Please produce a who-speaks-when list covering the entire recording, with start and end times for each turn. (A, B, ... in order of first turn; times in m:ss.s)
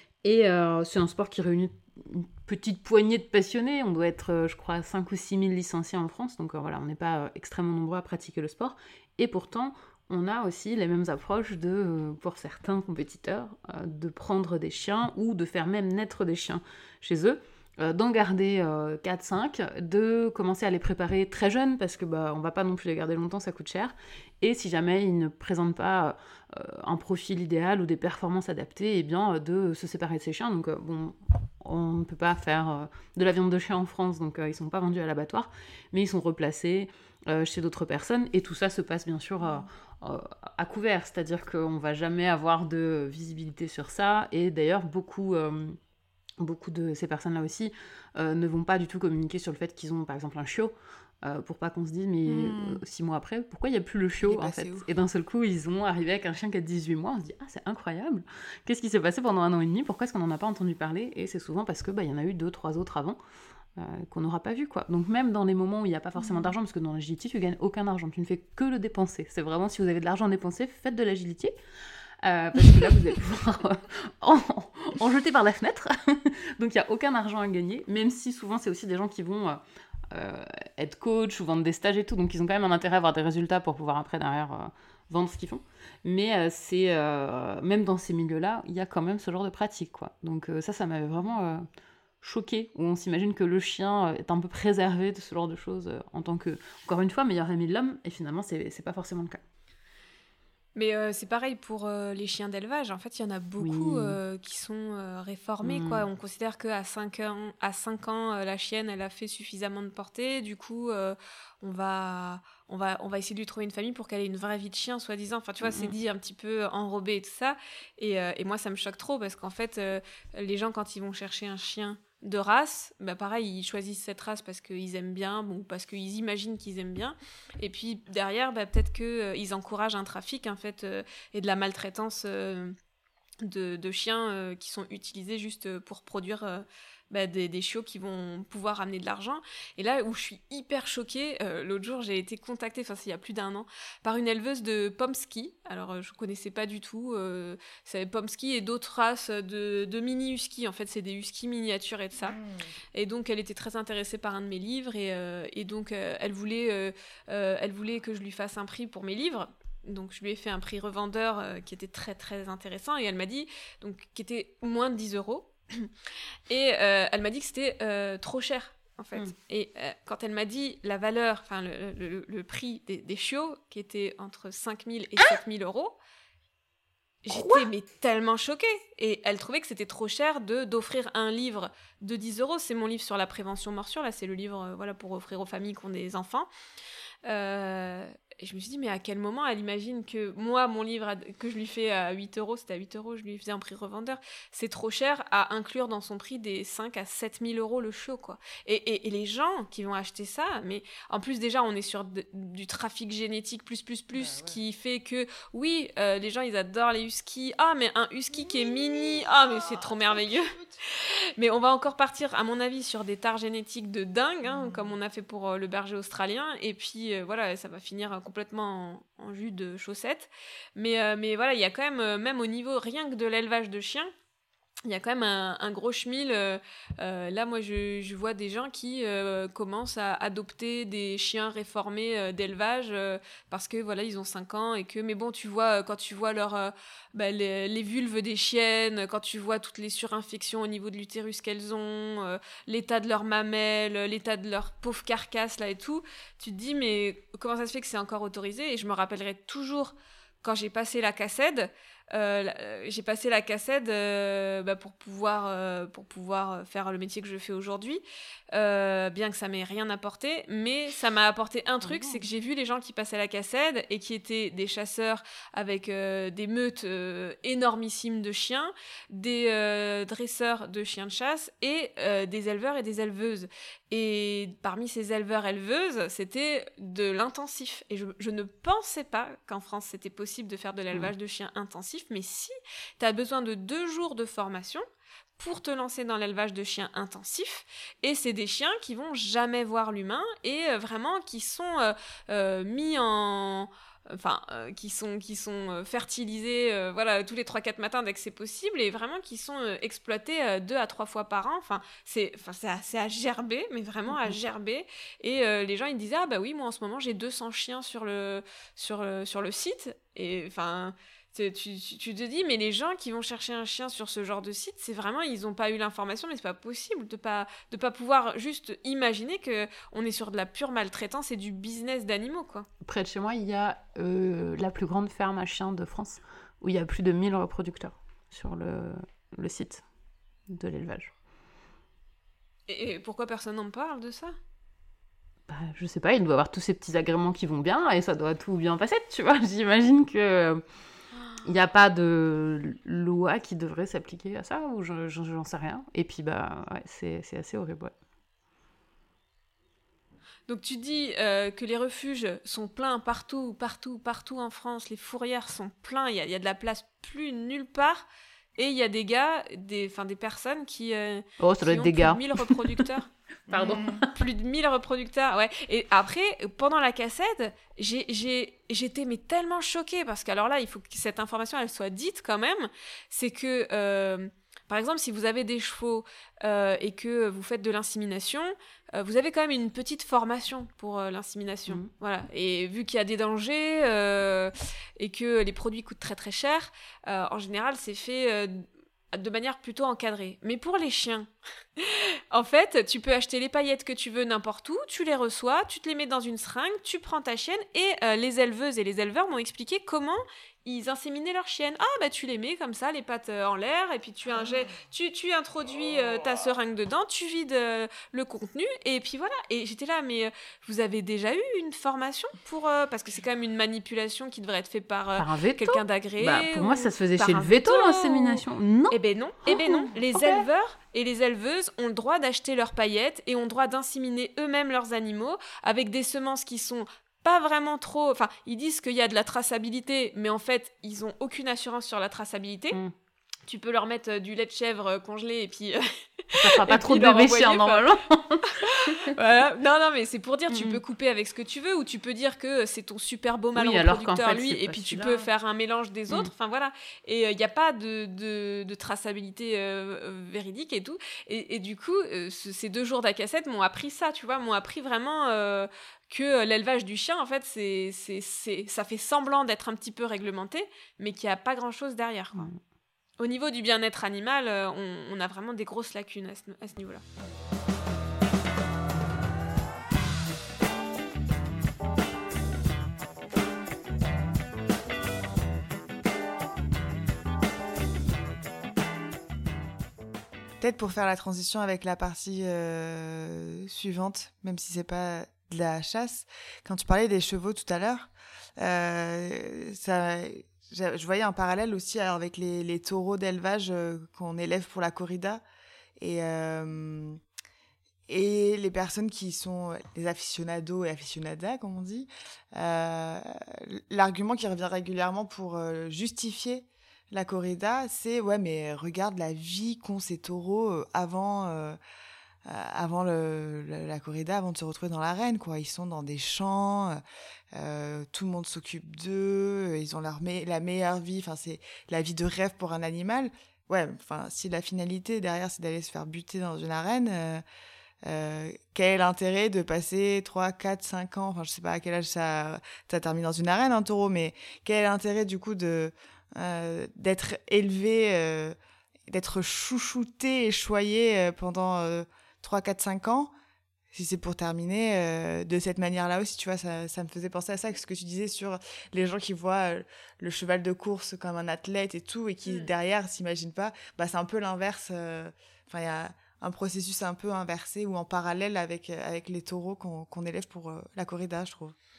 0:00.2-0:45.8 A
0:39.4-0:39.7 B
0:46.4-1:03.2 A
0:52.3-0:52.8 B
0:54.2-0:54.9 B
1:03.8-1:11.5 A
1:06.2-1:06.5 B
1:12.2-1:31.6 A
1:32.2-1:39.4 A
1:40.8-2:12.8 C
1:43.6-1:44.2 A
1:45.6-1:46.0 A
1:55.6-1:55.9 A
2:13.4-2:32.4 C
2:32.2-2:32.7 B
2:32.9-2:45.9 C
2:46.5-2:56.0 C
2:57.2-3:06.5 C
2:57.3-2:57.7 A
3:07.3-3:44.1 C
3:24.1-3:24.6 B
3:28.4-3:30.8 B
3:34.4-3:34.9 B
3:44.9-4:44.8 C
4:21.8-4:22.2 A
4:45.4-5:22.7 C
5:04.1-5:04.4 A
5:22.8-5:29.8 A
5:30.5-5:31.1 A
5:32.7-5:34.4 C
5:35.5-5:40.6 A
5:41.4-5:47.9 A
5:50.5-5:58.1 C
5:58.6-6:03.1 C
6:01.4-6:02.9 A
6:03.5-6:04.0 B
6:03.5-6:04.1 A
6:04.1-7:12.8 C
6:55.2-7:00.5 A
7:13.5-7:17.8 C
7:16.4-7:19.1 A
7:18.5-7:42.5 C
7:20.5-7:20.8 A
7:23.6-7:25.2 A
7:42.3-7:42.6 A
7:43.2-7:47.0 C
8:00.6-8:15.4 B
8:16.0-8:17.2 B
8:18.1-8:31.8 B
8:32.4-8:37.0 B
8:37.5-8:47.4 B
8:48.0-8:58.6 B
8:59.1-9:03.3 B
9:03.9-9:21.8 B